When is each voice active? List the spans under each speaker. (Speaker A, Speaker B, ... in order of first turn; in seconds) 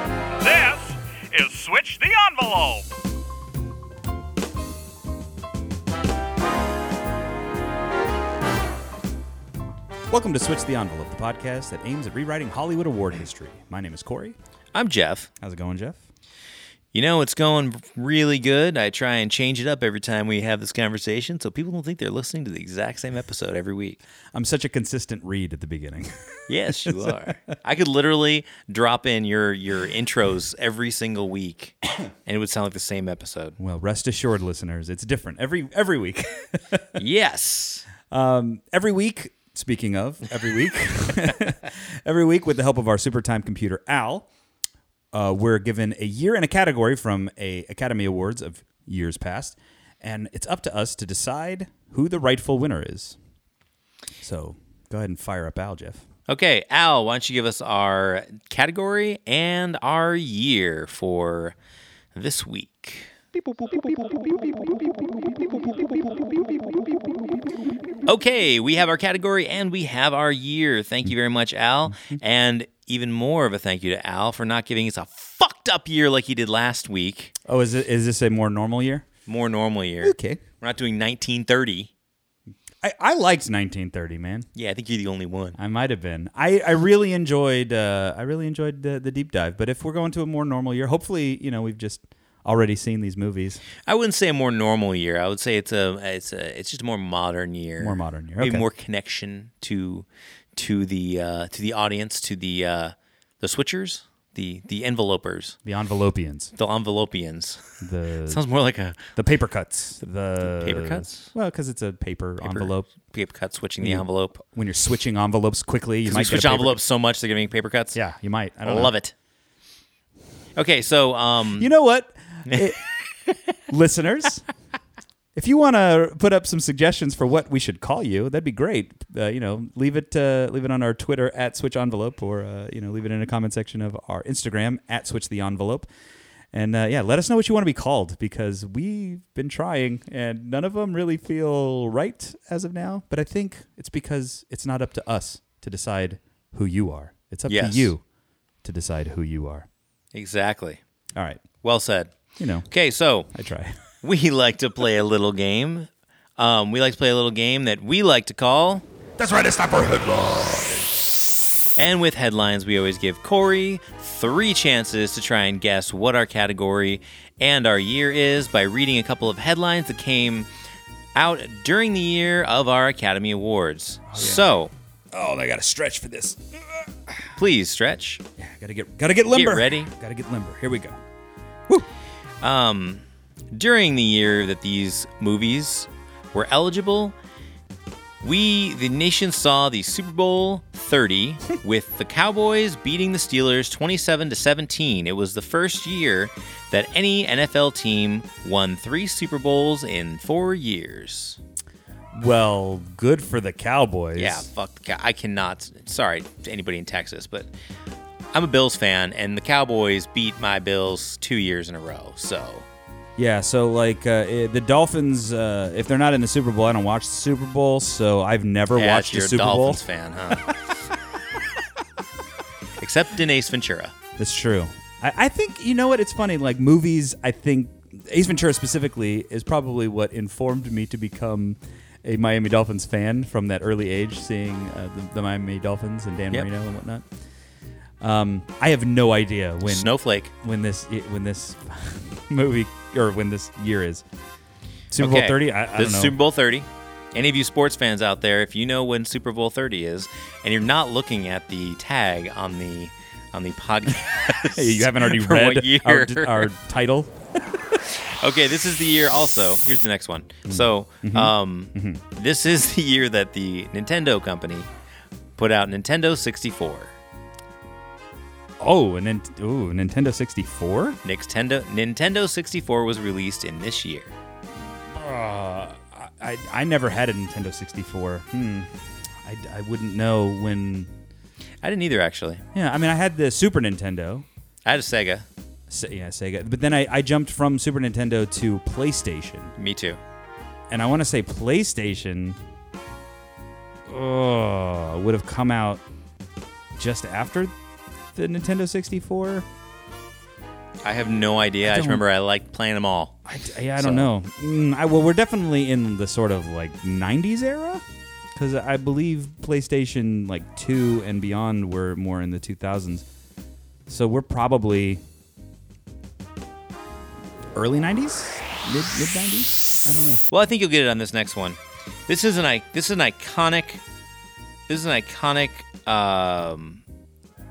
Speaker A: 0.4-2.9
Speaker B: 10.1-14.4, 15.4-16.0, 24.3-27.2, 33.6-36.8, 38.1-44.3, 45.1-53.2, 54.2-56.0, 77.4-79.0, 80.0-80.4, 82.8-84.5, 85.6-93.6, 97.8-98.6, 105.6-106.5, 107.8-108.4, 109.1-112.9, 113.8-116.8, 118.0-118.9, 121.6-122.8, 123.7-124.5, 125.4-135.9, 136.5-148.0, 148.6-149.7, 151.2-151.4, 152.4-152.7, 153.3-153.8, 159.2-160.9, 174.1-174.5, 175.1-177.1, 178.4-181.0, 202.1-204.5, 213.2-219.8, 224.2-237.1, 238.0-244.0, 244.9-246.2, 254.5-257.1, 260.5-262.0, 268.6-271.0, 274.9-280.9, 282.5-284.2, 285.7-289.5, 290.7-292.4, 293.9-295.8, 296.8-297.5, 298.1-299.4, 301.6-302.0, 303.3-313.0, 313.9-315.0, 317.5-320.2
Speaker C: 14.7-15.3, 16.9-24.0, 26.5-33.6, 37.0-37.8, 56.3-61.5, 62.1-63.1, 68.0-77.3, 79.3-81.9, 84.5-85.6, 93.8-105.5, 106.5-107.6, 108.3-109.1, 110.4-111.3, 112.4-114.4, 116.0-118.0, 118.6-119.1, 120.5-121.7, 122.5-123.4, 147.5-147.9, 150.1-150.8, 151.6-152.2, 152.7-153.3, 154.0-158.8, 161.8-170.5, 171.2-174.7, 177.4-178.2, 179.3-179.9, 182.4-187.2, 188.2-201.4, 204.2-207.5, 208.3-212.7, 218.8-220.6, 222.8-223.9, 239.6-240.3, 245.0-256.5, 258.2-264.7, 265.4-266.9, 271.0-274.1, 281.6-282.4, 284.6-285.2, 289.6-290.0, 300.8-303.2, 303.8-304.1, 320.3-323.8, 324.7-326.8